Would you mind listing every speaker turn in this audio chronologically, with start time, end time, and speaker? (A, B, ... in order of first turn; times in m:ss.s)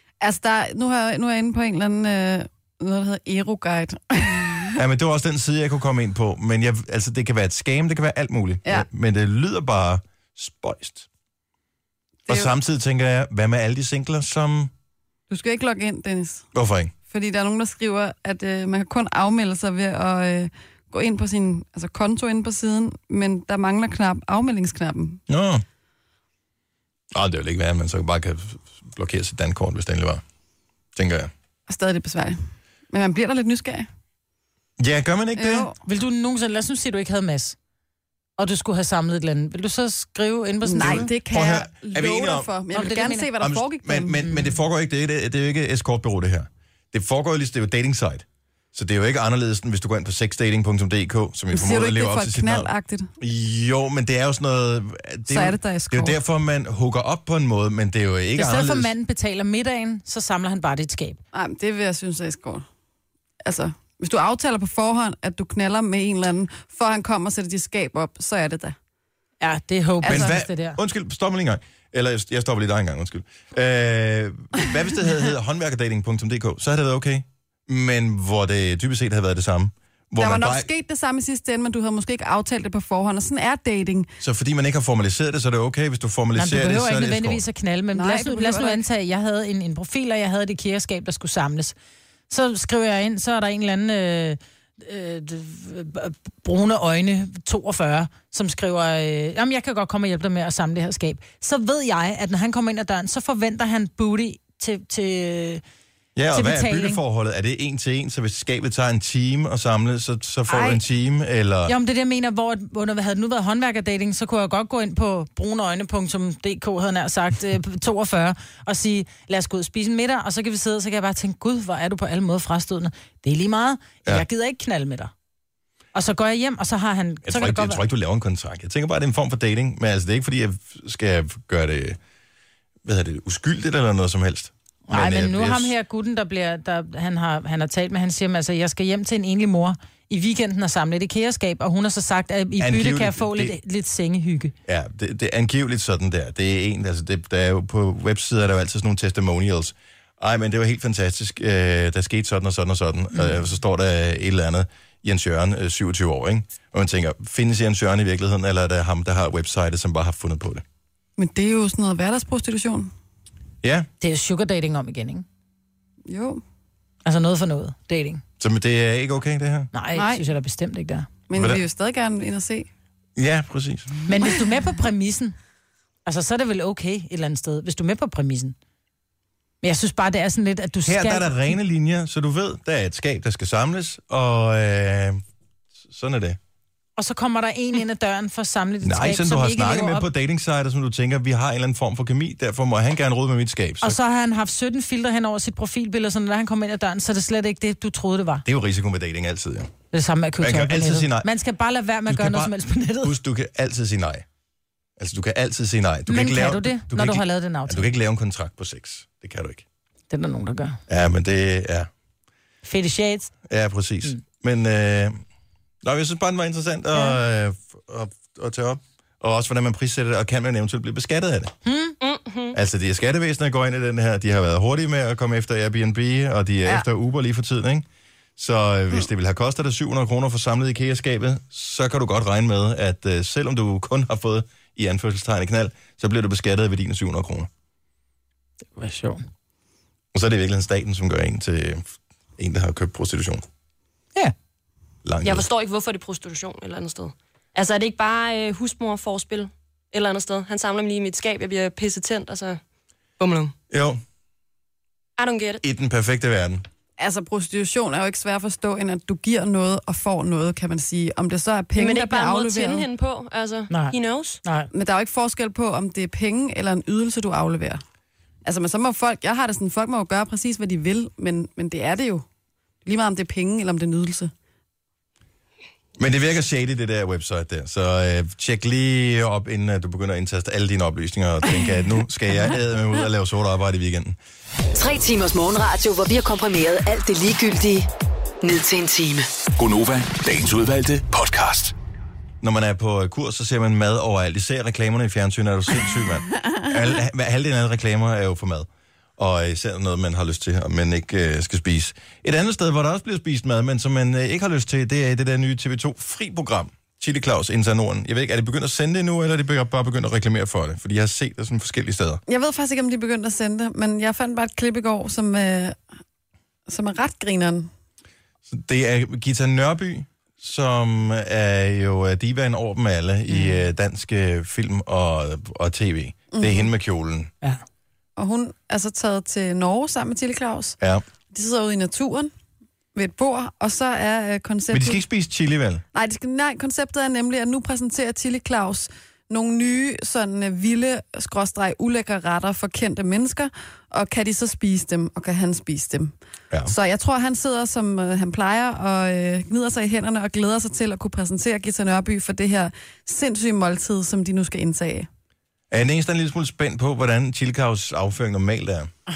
0:00.2-0:04.8 A
0:04.8-0:11.1 B
0:12.3-0:12.5 A
0:12.3-0:14.7 B
0:15.3-0:16.5 A
0:16.5-0:16.9 B
0:17.1-0:25.2 A
0:25.3-0:25.6 B
0:27.1-0:30.2 B
0:31.0-0:31.3 B
0:31.7-0:32.4 A
0:32.9-0:33.9 A
0:34.8-0:35.7 B
0:35.4-0:35.7 A
0:35.8-0:37.6 C
0:38.4-0:41.1 C
0:40.6-0:44.2 A
0:40.8-0:42.5 B
0:42.7-0:43.3 C
0:43.4-0:58.9 B
0:51.5-0:53.1 A
0:55.3-0:56.2 A
0:58.4-1:01.2 C
1:01.3-1:02.6 A
1:03.4-1:08.8 A
1:09.4-1:10.8 C
1:10.0-1:10.4 A
1:10.0-1:20.7 B
1:20.2-1:24.1 A
1:24.2-1:27.4 B
1:26.4-1:31.8 C
1:27.9-1:28.8 A
1:32.3-1:45.6 C
1:46.2-1:51.8 B
1:46.3-1:47.0 C
1:50.5-1:50.8 C
1:51.7-2:05.1 C
2:05.9-2:07.8 C
2:07.2-2:12.0 B
2:12.8-2:15.7 B
2:14.9-2:24.5 C
2:22.6-2:23.6 B
2:24.7-2:40.6 B
2:41.2-2:42.9 A
2:43.6-2:43.9 B
2:44.0-2:45.2 C
2:46.1-2:46.4 A
2:47.0-2:48.2 C
2:48.4-2:49.7 B
2:49.7-2:51.1 C
2:49.9-2:50.2 A
2:51.3-2:52.7 A
2:51.4-2:51.6 B
2:53.2-2:53.9 B
2:54.1-2:55.4 C
2:56.0-2:58.6 C
2:59.6-3:01.3 C
3:00.9-3:05.2 B
3:05.9-3:06.4 B
3:07.0-3:10.1 C
3:08.8-3:14.0 B
3:13.8-3:18.4 C
3:18.4-3:19.7 B
3:19.9-3:23.2 C
3:20.4-3:21.3 B
3:22.1-3:24.3 B
3:25.0-3:29.6 B
3:26.1-3:27.9 C
3:30.1-3:30.8 C
3:30.9-3:31.9 B
3:32.6-3:33.3 C
3:33.5-3:35.2 B
3:35.8-3:41.5 B
3:36.9-3:37.2 C
3:41.6-3:42.0 C
3:42.0-3:42.6 D
3:42.5-3:57.5 B
3:58.8-3:59.2 C
4:00.1-4:03.4 B
4:05.0-4:05.5 B
4:05.2-4:12.6 D
4:13.2-4:13.5 D
4:13.7-4:14.0 B
4:15.2-4:15.6 D
4:15.6-4:16.6 B
4:17.0-4:22.9 A
4:21.8-4:24.4 D
4:23.7-4:24.7 C
4:24.7-4:27.8 A
4:28.4-4:32.2 A
4:32.8-4:34.3 A
4:36.0-4:44.2 B
4:44.8-4:47.9 E
4:48.4-4:49.3 E
4:49.6-4:51.7 F
4:52.4-5:12.2 B
5:12.3-5:15.8 A
5:16.7-5:17.7 A
5:18.5-5:27.3 B
5:23.3-5:23.6 C
5:26.3-5:26.7 A
5:28.2-5:30.8 A
5:31.3-5:32.3 A
5:33.0-5:35.0 A
5:34.7-5:35.8 B
5:35.9-5:46.2 A
5:46.7-5:55.1 A
5:55.7-5:58.9 B